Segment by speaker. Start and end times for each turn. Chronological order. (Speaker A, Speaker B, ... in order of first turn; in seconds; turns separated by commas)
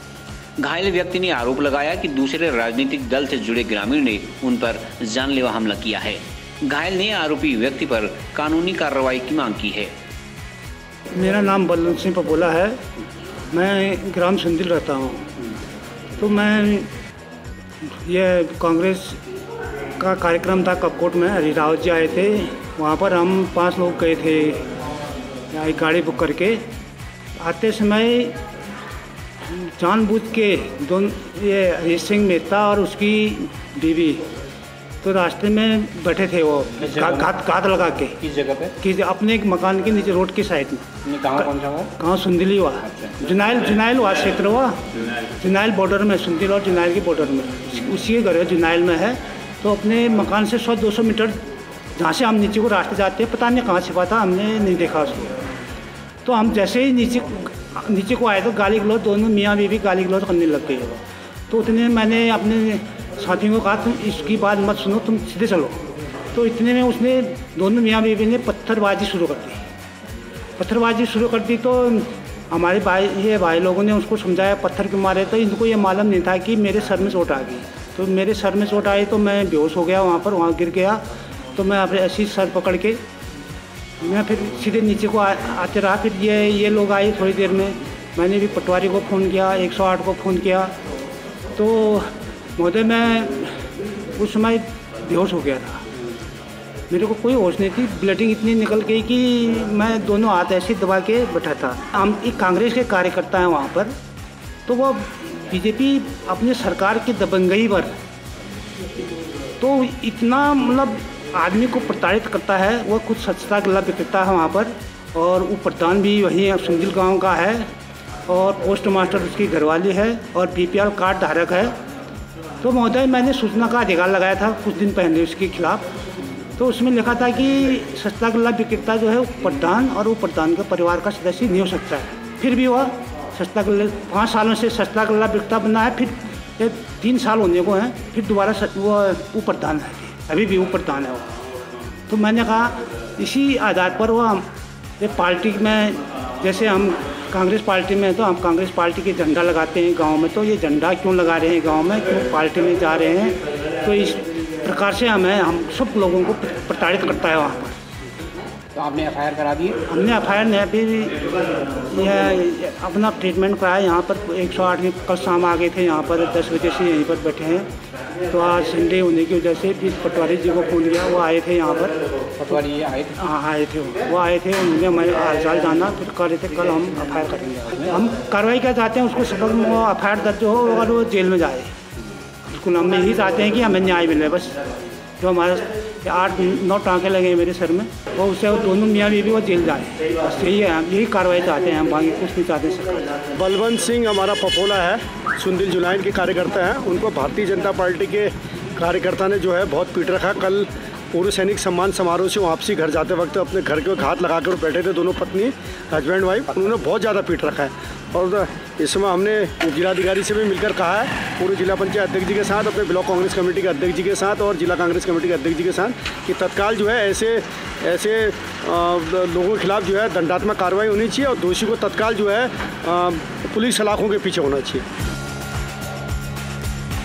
Speaker A: 0.6-9.9, Speaker B: 11.1-12.8, Speaker B: 13.5-15.3, Speaker B: 16.2-16.9, Speaker B: 17.9-19.2, Speaker B: 20.0-24.7, Speaker B: 25.5-26.6, Speaker B: 27.4-28.4, Speaker B: 29.5-34.2, Speaker B: 35.0-38.2, Speaker C: 36.8-37.2, Speaker C: 38.2-38.7, Speaker B: 38.8-51.4, Speaker C: 41.0-41.9, Speaker B: 52.0-55.4, Speaker B: 56.2-69.6, Speaker B: 70.6-81.0, Speaker B: 81.5-83.0, Speaker B: 84.0-90.7, Speaker B: 91.5-93.6, Speaker B: 94.2-95.8, Speaker B: 96.9-103.9, Speaker B: 104.7-107.9, Speaker B: 109.6-117.7, Speaker B: 118.3-121.7, Speaker B: 122.6-125.8, Speaker B: 126.6-141.3, Speaker B: 142.1-144.5, Speaker B: 145.0-157.8, Speaker C: 158.7-159.8, Speaker B: 159.9-167.7, Speaker B: 168.3-172.0, Speaker C: 172.4-173.1, Speaker B: 173.2-181.7, Speaker B: 182.4-184.6, Speaker B: 185.2-193.2, Speaker D: 193.3-224.8